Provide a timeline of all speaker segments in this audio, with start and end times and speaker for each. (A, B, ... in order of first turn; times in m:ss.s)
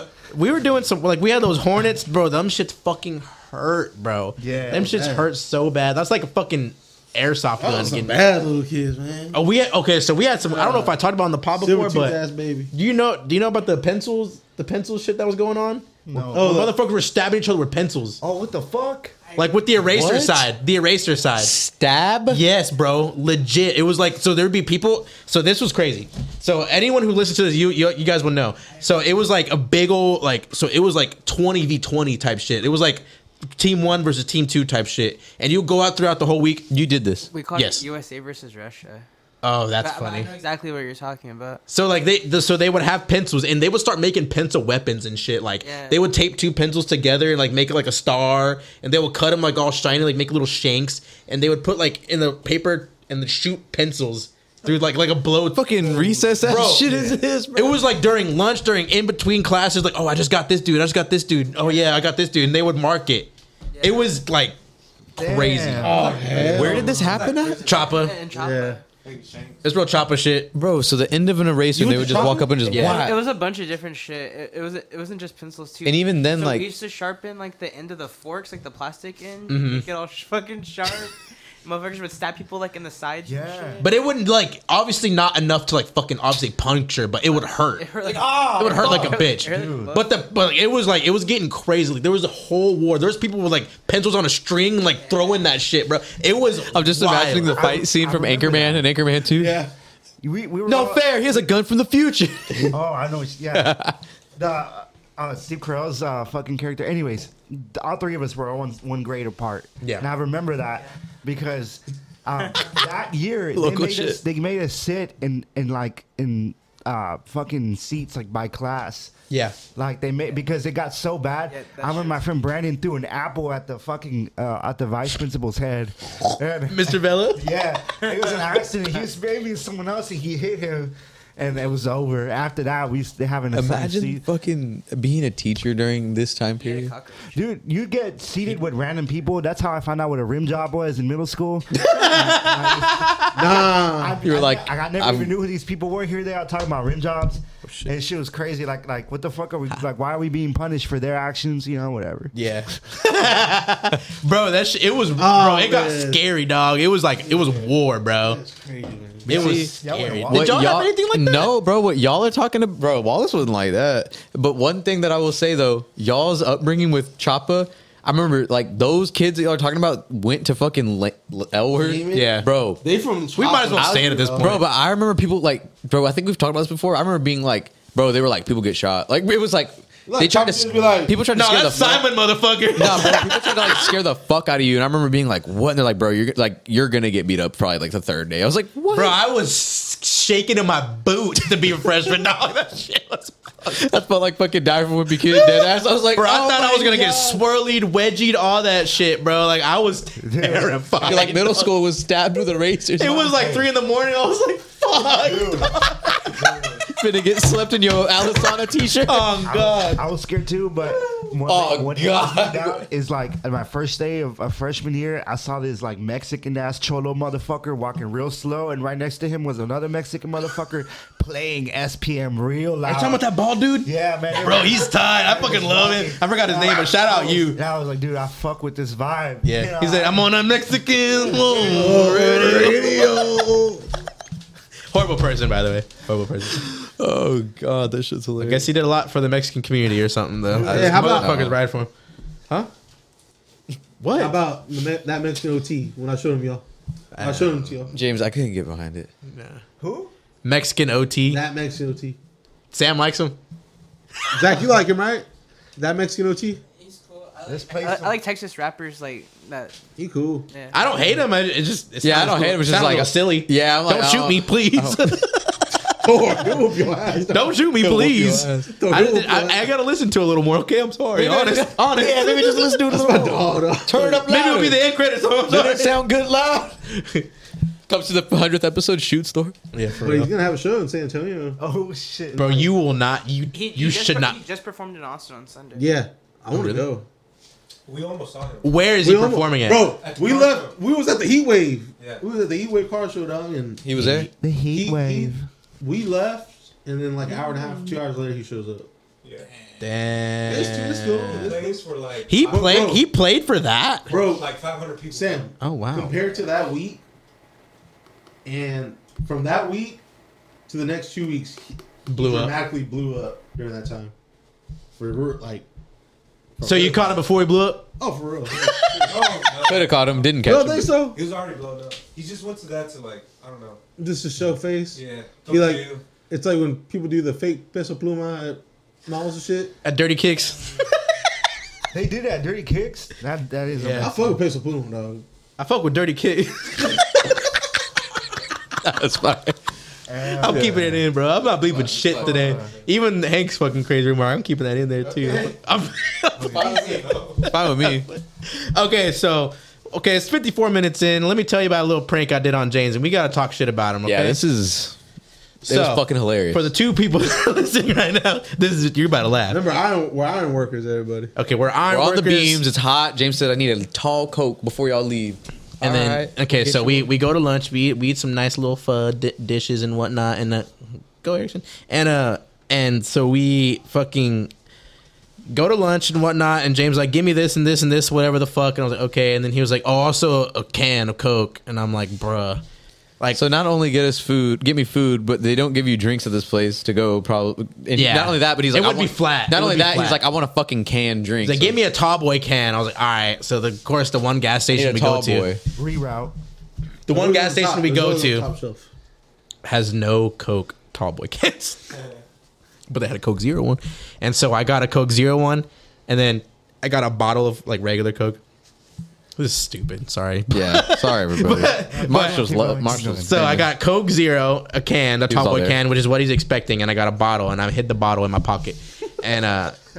0:00.3-0:08.2 A
0:04.4-0:05.0 B
0:04.7-0:05.2 C
0:07.6-0:09.4 C
0:09.3-0:12.2 A
0:10.4-0:10.9 C
0:11.6-0:12.7 C
0:12.7-0:18.2 A
0:16.0-0:16.7 B
0:16.3-0:16.7 C
0:18.2-0:19.1 B
0:19.3-0:21.5 A
0:19.8-0:20.5 D
0:21.4-0:22.4 D
0:22.3-0:33.0 A
0:33.6-0:36.7 A
0:36.7-0:37.3 D
0:37.3-0:39.0 E
0:37.5-0:37.8 A
0:39.4-0:40.3 A
0:39.8-0:41.6 E
0:41.7-0:55.6 A
0:45.6-0:46.0 E
0:55.5-0:57.8 D
0:56.4-1:03.3 A
0:56.5-0:57.2 B
1:03.7-1:04.1 E
1:03.8-1:04.6 A
1:05.2-1:06.1 B
1:05.2-1:06.2 A
1:05.8-1:07.0 C
1:06.0-1:08.1 F
1:06.4-1:07.6 D
1:07.6-1:08.2 A
1:07.8-1:08.8 E
1:08.3-1:08.8 C
1:09.0-1:09.6 F
1:09.6-1:10.5 A
1:10.5-1:13.2 D
1:11.8-1:13.0 A
1:11.8-1:12.4 C
1:12.7-1:24.0 E
1:15.8-1:16.7 D
1:19.5-1:19.8 A
1:23.2-1:23.8 B
1:23.8-1:27.9 A
1:27.3-1:30.2 E
1:28.5-1:30.0 B
1:28.5-1:37.7 A
1:35.0-1:35.4 E
1:36.7-1:39.6 D
1:37.5-1:38.8 B
1:39.3-1:39.7 C
1:40.2-1:41.1 B
1:40.6-1:42.7 D
1:42.7-1:43.8 B
1:43.5-1:43.9 D
1:44.4-1:59.1 B
1:53.5-1:54.2 D
1:59.3-1:59.6 A
1:59.7-2:14.2 B
2:01.5-2:02.2 E
2:06.7-2:07.4 A
2:13.5-2:16.9 D
2:16.6-2:17.4 E
2:17.3-2:32.3 B
2:21.8-2:22.8 A
2:23.3-2:24.2 C
2:24.2-2:25.3 D
2:27.6-2:27.9 A
2:32.3-2:38.4 A
2:35.2-2:36.2 C
2:37.2-2:39.7 C
2:39.3-2:41.5 A
2:39.3-2:40.7 B
2:39.4-2:39.7 D
2:40.3-2:52.8 D
2:51.7-2:54.6 C
2:52.1-2:52.5 A
2:53.4-2:54.6 A
2:53.8-3:02.1 D
3:00.1-3:01.2 C
3:01.3-3:03.8 A
3:02.7-3:09.2 D
3:08.9-3:13.8 A
3:13.6-3:17.4 D
3:15.3-3:21.7 A
3:20.2-3:21.2 B
3:21.0-3:23.5 D
3:23.0-3:26.4 A
3:23.4-3:23.6 B
3:25.1-3:25.7 B
3:26.3-3:26.9 B
3:26.9-3:29.5 D
3:29.0-3:30.0 A
3:29.4-3:43.3 B
3:30.8-3:32.8 D
3:42.8-3:47.6 A
3:43.8-3:50.3 B
3:49.4-3:53.2 A
3:51.4-3:53.9 C
3:54.9-3:56.6 A
3:56.6-3:58.7 D
3:58.4-4:01.9 A
4:00.5-4:01.0 B
4:00.6-4:01.4 C
4:00.7-4:01.5 D
4:04.0-4:04.4 A
4:04.1-4:06.6 C
4:07.1-4:07.7 A
4:07.2-4:07.9 C
4:07.9-4:09.1 D
4:09.2-4:09.6 A
4:09.8-4:10.1 B
4:10.4-4:11.4 A
4:11.3-4:12.2 C
4:12.7-4:13.4 A
4:14.3-4:16.6 C
4:16.8-4:19.8 E
4:17.4-4:18.3 B
4:20.0-4:20.5 C
4:20.5-4:20.8 E
4:20.7-4:25.5 A
4:22.0-4:25.3 D
4:26.0-4:27.6 C
4:27.3-4:32.0 A
4:27.8-4:28.7 D
4:28.7-4:29.7 C
4:31.2-4:34.8 D
4:32.0-4:34.2 C
4:34.3-4:36.0 A
4:35.5-4:37.0 D
4:37.9-4:39.5 D
4:39.7-4:40.3 A
4:39.9-4:41.6 C
4:41.6-4:42.7 B
4:42.3-4:44.4 A
4:43.5-4:46.0 E
4:45.7-4:47.0 C
4:46.5-4:46.9 A
4:47.8-4:48.8 F
4:48.6-4:49.9 A
4:49.0-4:58.9 C
4:49.9-4:50.8 F
4:52.0-4:52.2 F
4:53.8-4:54.3 D
4:54.4-4:55.5 B
4:59.8-5:01.6 A
5:00.5-5:01.8 C
5:00.5-5:02.9 F
5:02.2-5:04.1 A
5:02.4-5:03.0 C
5:04.1-5:04.5 C
5:04.1-5:05.5 F
5:05.1-5:07.0 C
5:05.6-5:06.2 A
5:08.4-5:10.0 C
5:10.7-5:14.1 C
5:12.1-5:12.5 A
5:15.0-5:15.6 C
5:16.6-5:17.2 C
5:16.6-5:17.9 A
5:18.0-5:19.3 C
5:19.0-5:20.2 F
5:19.7-5:20.9 D
5:20.4-5:21.2 C
5:21.1-5:23.8 F
5:24.0-5:29.7 C
5:24.9-5:26.0 F
5:29.8-5:30.9 A
5:31.9-5:34.4 B
5:33.8-5:34.1 A
5:33.9-5:35.2 C
5:35.6-5:37.4 A
5:38.8-5:39.6 D
5:40.1-5:41.1 B
5:40.4-5:54.4 A
5:41.7-5:42.3 D
5:42.1-5:42.7 B
5:46.4-5:47.5 F
5:46.5-5:48.1 D
5:54.0-5:55.0 D
5:55.6-5:59.6 A
5:55.6-5:56.7 D
5:59.5-6:01.3 C
6:01.4-6:02.6 A
6:01.9-6:07.1 D
6:05.8-6:10.7 A
6:11.2-6:14.5 A
6:15.5-6:22.6 A
6:23.3-6:31.8 D
6:27.9-6:30.2 A
6:31.4-6:35.5 A
6:34.7-6:35.6 D
6:35.8-6:36.3 B
6:37.1-6:38.5 A
6:37.1-6:38.9 C
6:39.6-6:41.8 A
6:42.9-6:48.4 A
6:49.4-6:52.4 A
6:50.5-6:53.7 D
6:51.6-6:53.3 B
6:53.2-6:59.8 A
6:55.3-6:55.8 D